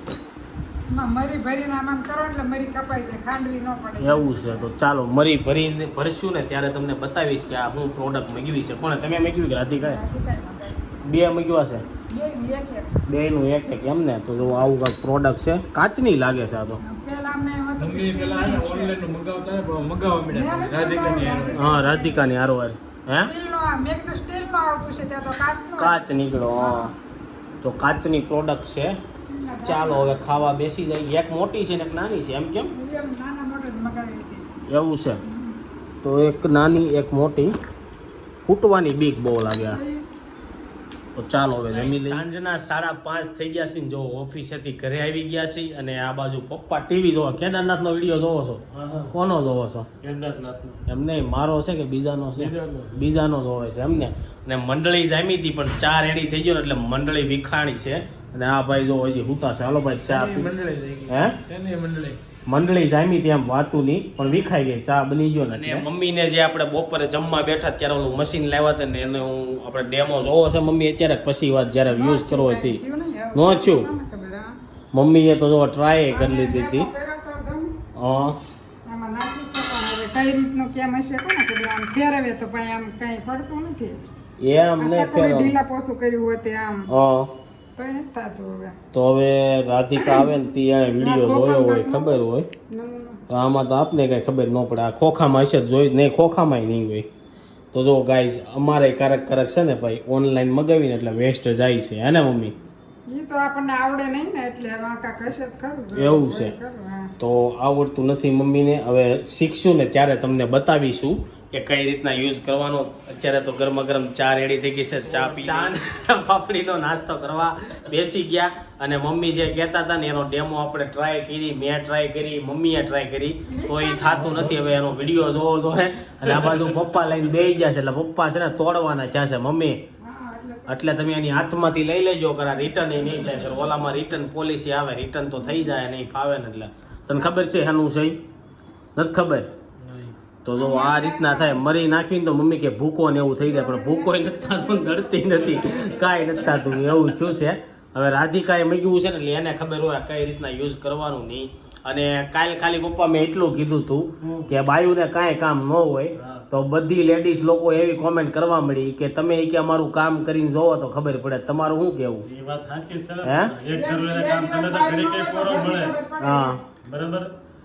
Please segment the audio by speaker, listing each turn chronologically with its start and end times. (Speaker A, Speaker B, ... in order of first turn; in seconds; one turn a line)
Speaker A: 0.9-4.7
Speaker B: 4.0-10.0
Speaker A: 9.8-10.8
Speaker B: 11.0-11.8
Speaker A: 12.1-12.9
Speaker B: 13.1-16.8
Speaker A: 16.8-18.9
Speaker C: 17.8-21.7
Speaker A: 20.3-22.2
Speaker B: 21.5-23.3
Speaker A: 23.2-26.0
Speaker B: 25.8-26.9
Speaker A: 26.6-26.9
Speaker B: 27.6-29.0
Speaker A: 29.2-30.1
Speaker B: 29.6-32.7
Speaker A: 32.7-34.5
Speaker B: 34.7-35.2
Speaker A: 35.3-35.6
Speaker B: 36.0-37.5
Speaker B: 38.4-39.8
Speaker A: 39.5-40.0
Speaker B: 41.1-49.9
Speaker D: 41.8-42.2
Speaker D: 48.7-49.1
Speaker D: 50.0-50.8
Speaker B: 50.9-60.5
Speaker C: 52.4-53.0
Speaker C: 60.0-62.2
Speaker B: 61.1-61.4
Speaker B: 62.5-72.8
Speaker C: 65.5-65.8
Speaker A: 71.9-74.5
Speaker B: 73.3-73.9
Speaker B: 74.9-76.9
Speaker A: 76.1-77.7
Speaker B: 78.0-78.4
Speaker A: 78.8-84.0
Speaker B: 84.4-85.5
Speaker A: 84.8-86.9
Speaker B: 86.9-87.3
Speaker A: 87.8-88.8
Speaker B: 88.9-92.5
Speaker A: 90.0-90.3
Speaker A: 91.0-93.2
Speaker B: 93.3-97.1
Speaker B: 97.7-102.5
Speaker A: 103.1-107.1
Speaker B: 105.9-106.5
Speaker B: 107.2-129.8
Speaker C: 115.1-115.7
Speaker A: 123.5-124.6
Speaker C: 124.1-124.7
Speaker D: 126.2-126.9
Speaker A: 130.0-130.9
Speaker B: 130.7-138.2
Speaker A: 135.4-135.7
Speaker A: 137.1-137.6
Speaker B: 138.9-139.5
Speaker C: 139.8-140.1
Speaker B: 140.4-162.2
Speaker A: 140.5-141.6
Speaker A: 143.4-146.7
Speaker D: 145.4-147.1
Speaker D: 154.2-154.6
Speaker D: 162.3-166.0
Speaker B: 163.2-163.5
Speaker A: 163.7-166.6
Speaker B: 166.2-166.6
Speaker D: 166.8-167.3